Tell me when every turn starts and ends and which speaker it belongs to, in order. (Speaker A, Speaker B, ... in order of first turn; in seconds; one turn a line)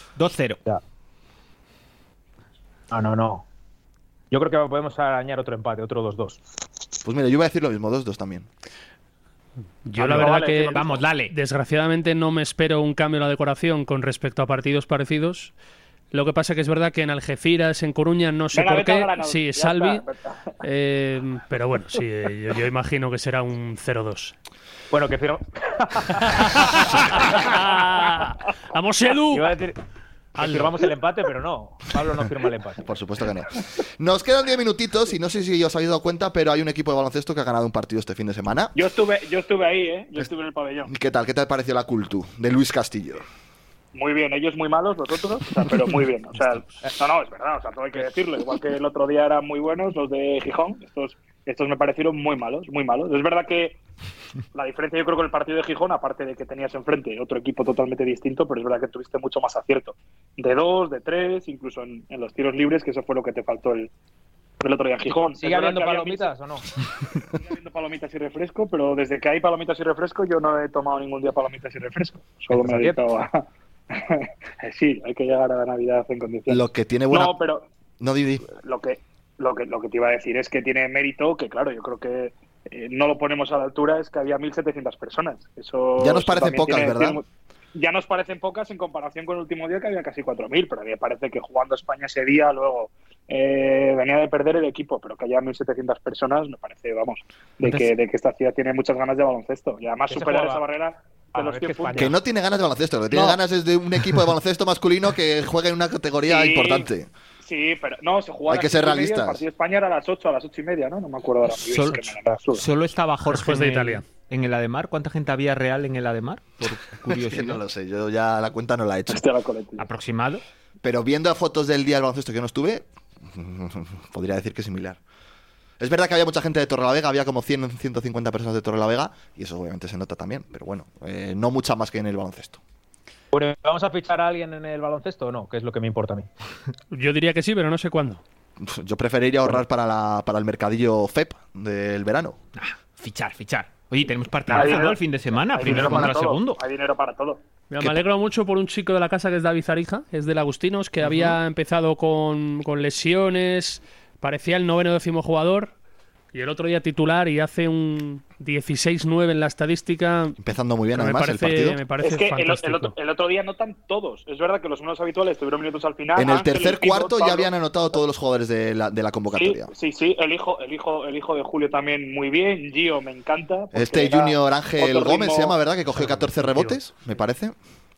Speaker A: 0.2-0.6
Speaker B: 2.9-3.5
Speaker B: 4.3-6.4
Speaker C: 7.0-8.5
Speaker D: 9.8-15.5
Speaker A: 10.0-11.3
Speaker E: 10.1-11.0
Speaker D: 16.1-20.0
Speaker E: 18.5-20.5
Speaker D: 20.6-24.3
Speaker B: 24.9-27.4
Speaker D: 26.2-29.6
Speaker B: 29.3-29.8
Speaker B: 30.4-32.9
Speaker D: 30.4-30.7
Speaker C: 32.8-38.7
Speaker E: 38.7-40.9
Speaker C: 40.9-43.2
Speaker E: 43.9-53.8
Speaker E: 54.5-63.9
Speaker E: 64.6-66.3
Speaker B: 65.4-66.7
Speaker E: 67.4-77.7
Speaker B: 72.5-73.0
Speaker C: 76.5-77.3
Speaker C: 78.0-78.5
Speaker E: 78.6-87.2
Speaker C: 86.0-87.2
Speaker E: 87.8-102.1
Speaker B: 100.1-100.6
Speaker B: 101.3-102.2
Speaker C: 101.9-107.1
Speaker E: 106.3-106.9
Speaker E: 107.4-112.7
Speaker C: 108.5-109.4
Speaker A: 111.6-117.6
Speaker D: 113.3-114.0
Speaker C: 117.1-119.2
Speaker E: 119.1-119.8
Speaker A: 119.8-120.4
Speaker C: 120.8-125.0
Speaker C: 125.8-132.6
Speaker B: 133.3-136.3
Speaker D: 136.9-138.2
Speaker C: 138.6-142.4
Speaker A: 142.6-146.6
Speaker E: 144.5-147.4
Speaker C: 145.7-146.1
Speaker D: 147.7-155.7
Speaker C: 151.0-151.4
Speaker D: 156.3-160.4
Speaker C: 160.4-161.8
Speaker D: 160.9-162.9
Speaker E: 162.0-167.5
Speaker C: 166.2-169.7
Speaker E: 169.3-175.6
Speaker C: 173.7-177.6
Speaker D: 175.9-176.8